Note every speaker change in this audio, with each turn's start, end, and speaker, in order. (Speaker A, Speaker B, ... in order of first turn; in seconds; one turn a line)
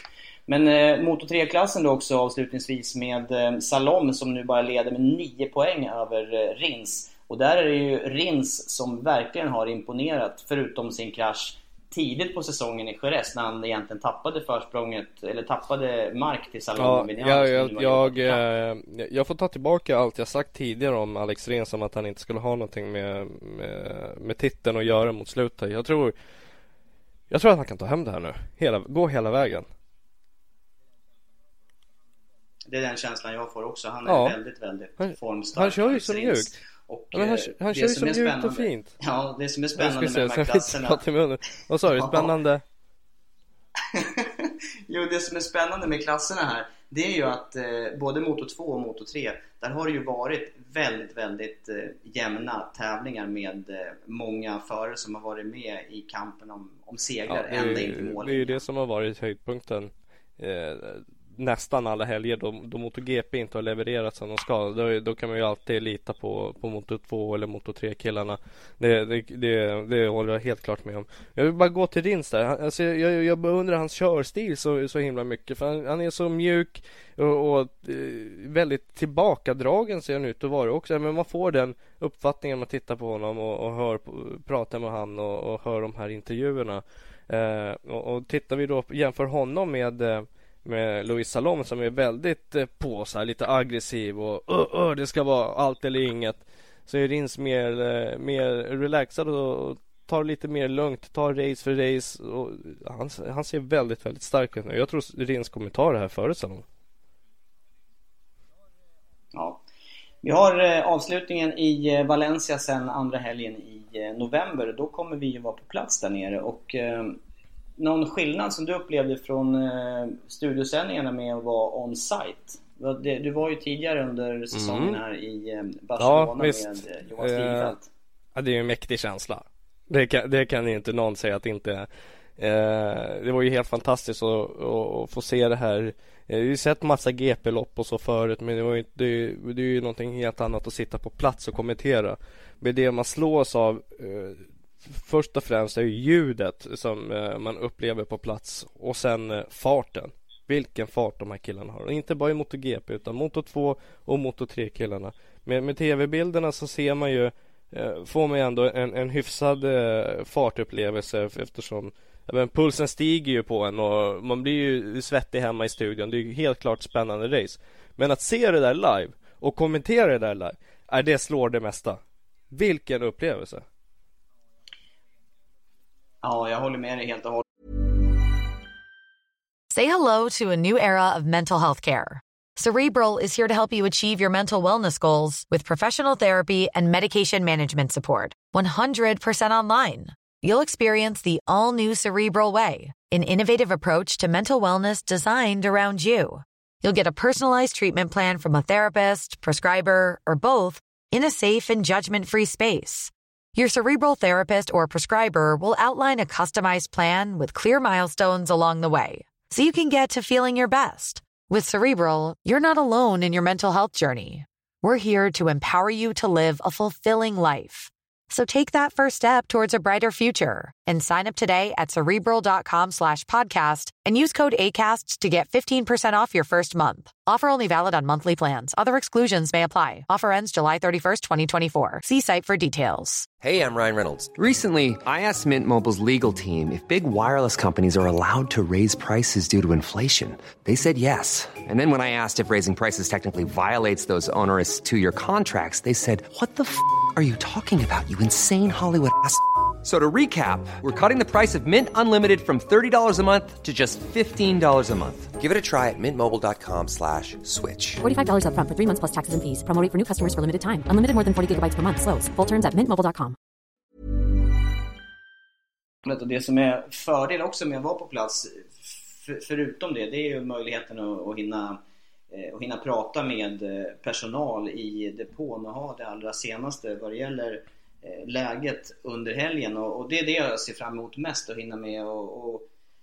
Speaker A: 0.5-18.4
Speaker B: 16.8-26.1
Speaker B: 27.3-29.7
Speaker A: 32.7-41.0
Speaker B: 34.1-34.4
Speaker B: 35.0-36.6
Speaker B: 37.1-39.0
Speaker B: 39.8-42.6
Speaker A: 41.9-42.3
Speaker A: 43.9-58.6
Speaker B: 57.3-106.7
Speaker A: 109.3-109.6
Speaker A: 110.2-117.2
Speaker A: 117.8-127.9
Speaker B: 124.5-125.0
Speaker B: 126.0-127.8
Speaker B: 128.3-172.0
Speaker B: 172.5-173.7
Speaker A: 176.2-177.4
Speaker C: 179.7-233.3
Speaker D: 233.4-258.0
Speaker E: 258.0-263.4
Speaker A: 266.0-271.8
Speaker A: 272.3-282.7